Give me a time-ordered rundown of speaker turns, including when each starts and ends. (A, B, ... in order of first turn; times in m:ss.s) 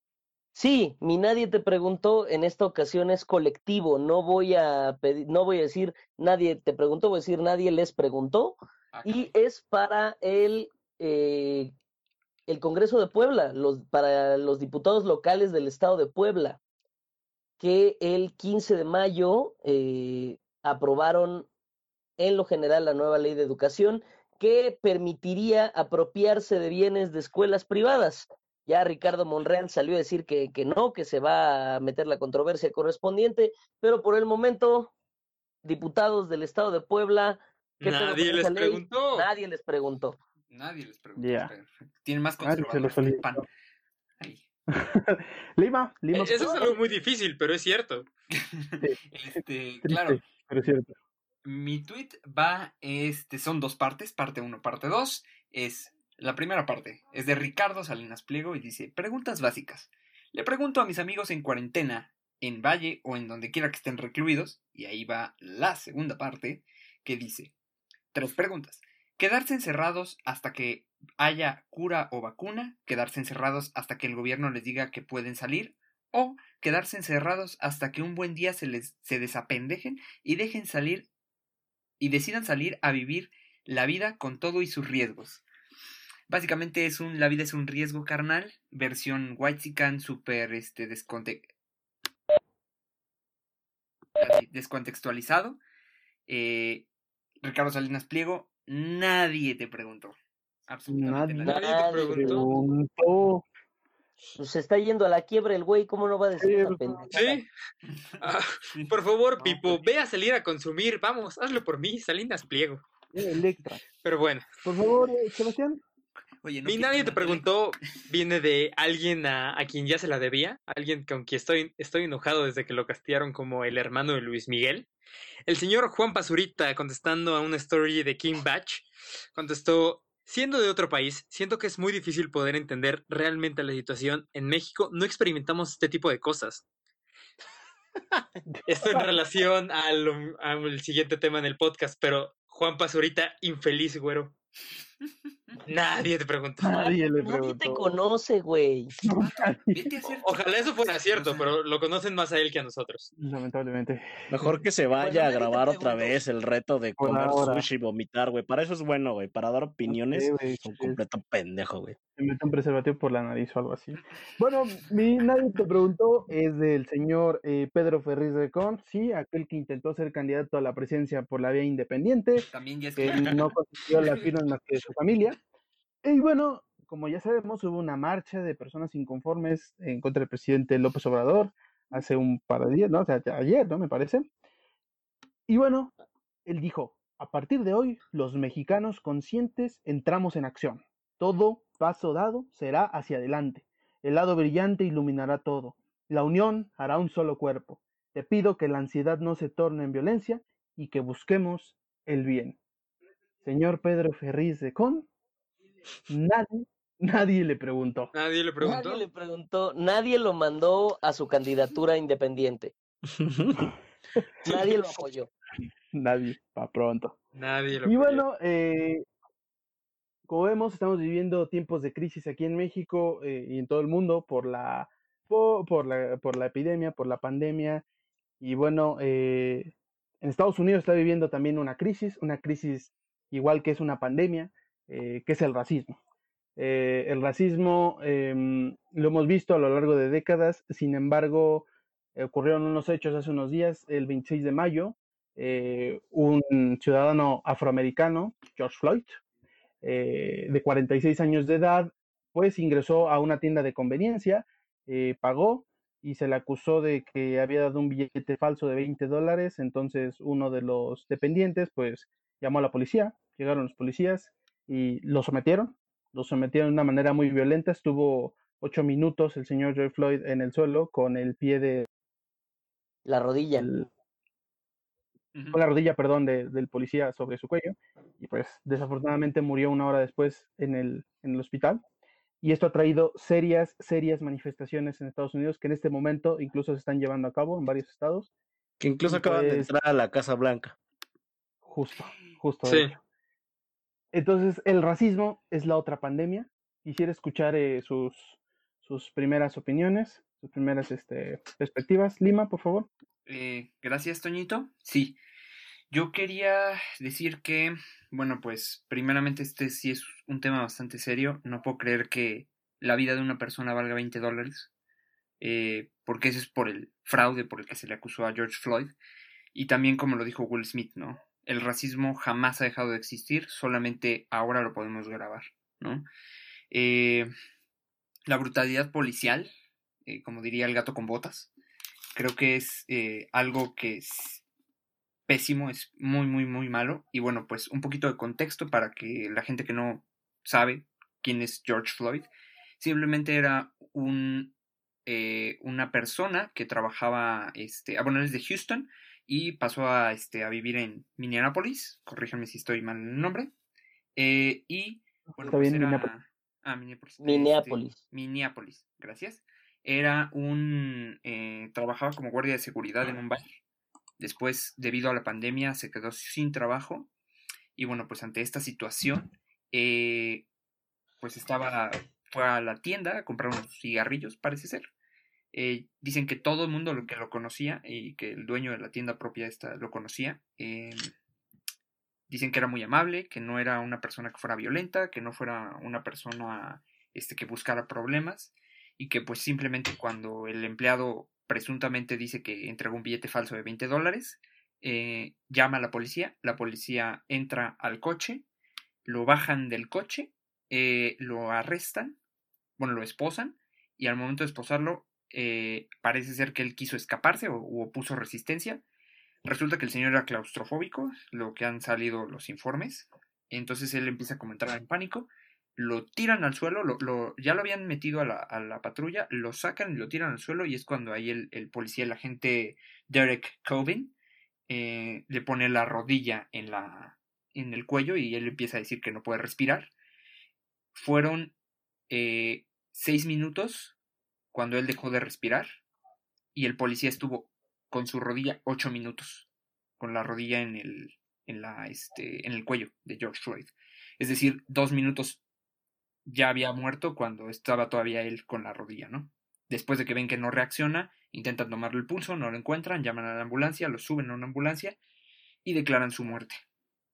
0:00.6-0:11.7 A
0:08.9-0:09.3 B
0:12.5-0:16.6 A
0:17.6-0:21.5 A
0:22.2-0:34.9 A
0:35.6-0:40.2 A
0:37.8-0:39.3 C
0:40.5-0:43.5 B
0:41.2-0:41.5 D
0:42.4-0:43.4 D
0:44.7-0:46.8 D
0:46.1-0:48.0 C
0:48.3-0:50.2 B
0:49.8-0:50.9 D
0:51.4-1:07.5 B
1:08.1-1:21.1 B
1:22.0-1:25.4 B
1:26.3-1:31.5 B
1:34.2-1:35.6 B
1:36.3-1:36.9 B
1:37.4-1:40.2 B
1:40.7-1:42.0 B
1:40.9-1:41.5 D
1:41.4-1:42.5 A
1:41.5-1:42.5 C
1:42.1-1:43.4 D
1:44.4-1:47.4 A
1:46.4-1:47.2 D
1:47.1-1:47.5 C
1:48.2-1:52.8 C
1:48.7-1:49.8 B
1:53.1-1:53.8 D
1:54.0-1:54.5 C
1:54.6-1:55.8 D
1:56.4-1:57.4 B
1:56.7-2:04.9 C
2:05.5-2:16.6 C
2:18.5-2:19.1 D
2:18.7-2:24.4 C
2:25.7-2:26.8 C
2:26.6-2:27.9 D
2:26.7-2:28.9 A
2:29.0-2:29.9 D
2:29.1-2:31.5 B
2:30.2-2:33.1 C
2:33.2-2:34.6 D
2:34.3-2:42.0 E
2:35.0-2:36.2 A
2:37.0-2:37.6 D
2:39.9-2:41.0 D
2:42.2-2:55.4 D
2:52.5-2:53.5 B
2:56.0-3:04.3 D
3:05.5-3:05.9 D
3:06.5-3:22.6 D
3:23.4-3:25.1 D
3:26.1-3:28.1 D
3:28.1-3:29.0 C
3:28.6-3:32.7 A
3:33.2-3:33.6 E
3:34.4-3:35.3 A
3:35.9-3:37.2 D
3:37.4-3:38.2 C
3:37.8-3:39.0 D
3:40.3-3:47.8 D
3:48.4-3:56.0 D
3:56.6-4:09.2 D
4:09.8-4:31.9 D
4:33.1-4:33.7 A
4:33.6-4:33.9 D
4:35.3-4:35.6 B
4:35.5-4:41.8 D
4:42.4-4:48.3 D
4:48.8-4:50.8 E
4:49.1-4:49.7 D
4:51.6-4:53.0 D
4:52.6-4:52.9 C
4:54.1-5:02.9 D
5:03.3-5:05.2 B
5:05.9-5:14.7 B
5:15.4-5:19.0 B
5:19.6-5:26.1 B
5:26.7-5:27.3 B
5:28.3-5:29.5 B
5:30.1-5:31.5 B
5:32.2-5:34.4 B
5:35.3-5:44.5 B
5:45.1-5:53.5 B
5:54.2-6:03.4 B
5:55.4-5:56.1 D
5:57.2-5:58.0 A
6:04.2-6:07.1 B
6:07.8-6:10.5 B
6:11.2-6:14.9 B
6:15.5-6:21.0 B
6:22.3-6:38.4 B
6:39.0-6:42.2 B
6:42.8-6:48.8 B
6:49.4-7:04.2 B
7:04.7-7:09.9 B
7:10.9-7:11.5 B
7:12.1-7:14.0 B
7:14.5-7:15.7 B
7:16.6-7:19.5 B
7:20.0-7:25.4 B
7:26.3-7:35.0 B
7:35.6-7:36.6 B